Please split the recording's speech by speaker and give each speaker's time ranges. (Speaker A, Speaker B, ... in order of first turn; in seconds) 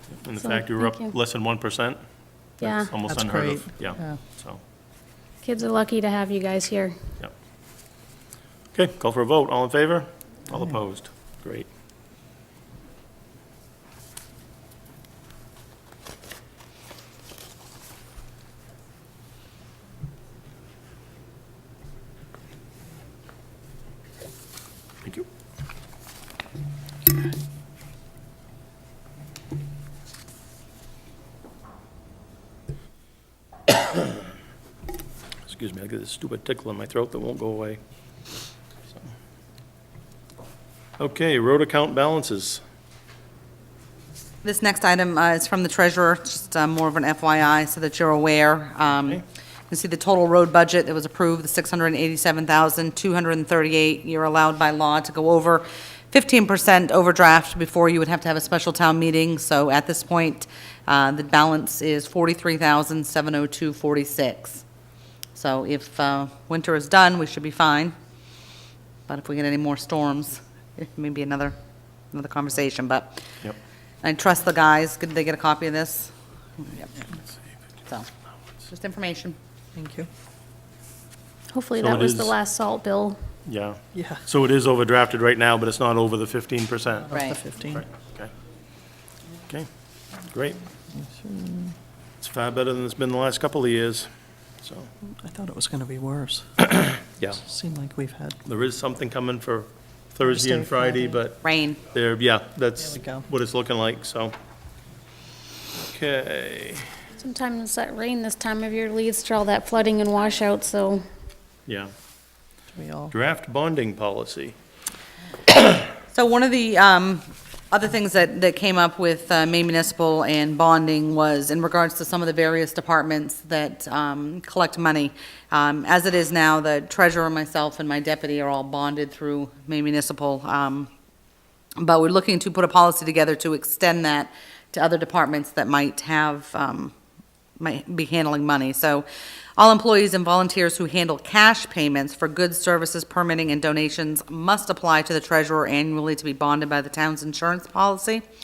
Speaker A: 0.1-2.0, 2.6-4.6, 8.7-11.7, 35.4-37.8, 41.0-42.6, 81.8-82.3, 83.5-87.1, 87.7-88.3, 90.3-90.6, 92.2-94.1, 94.6-94.9, 96.8-97.4, 98.4-104.3, 105.9-106.9, 111.7-111.9, 113.1-114.5
Speaker B: 0.4-1.1, 2.6-3.0, 5.4-6.9, 81.5-83.2, 107.1-111.0
Speaker C: 3.1-4.2, 79.7-80.1, 83.9-84.2, 87.1-87.9, 91.1-91.7, 95.1-96.7, 97.4-98.4, 100.2-101.2, 102.9-103.2, 112.7-113.1
Speaker D: 44.4-64.6, 65.3-68.0, 69.1-71.5, 72.1-73.2, 74.0-76.9, 78.7-79.4, 87.1-87.4, 101.4-101.8, 116.1-130.9, 131.8-136.9, 137.6-139.1, 139.6-148.2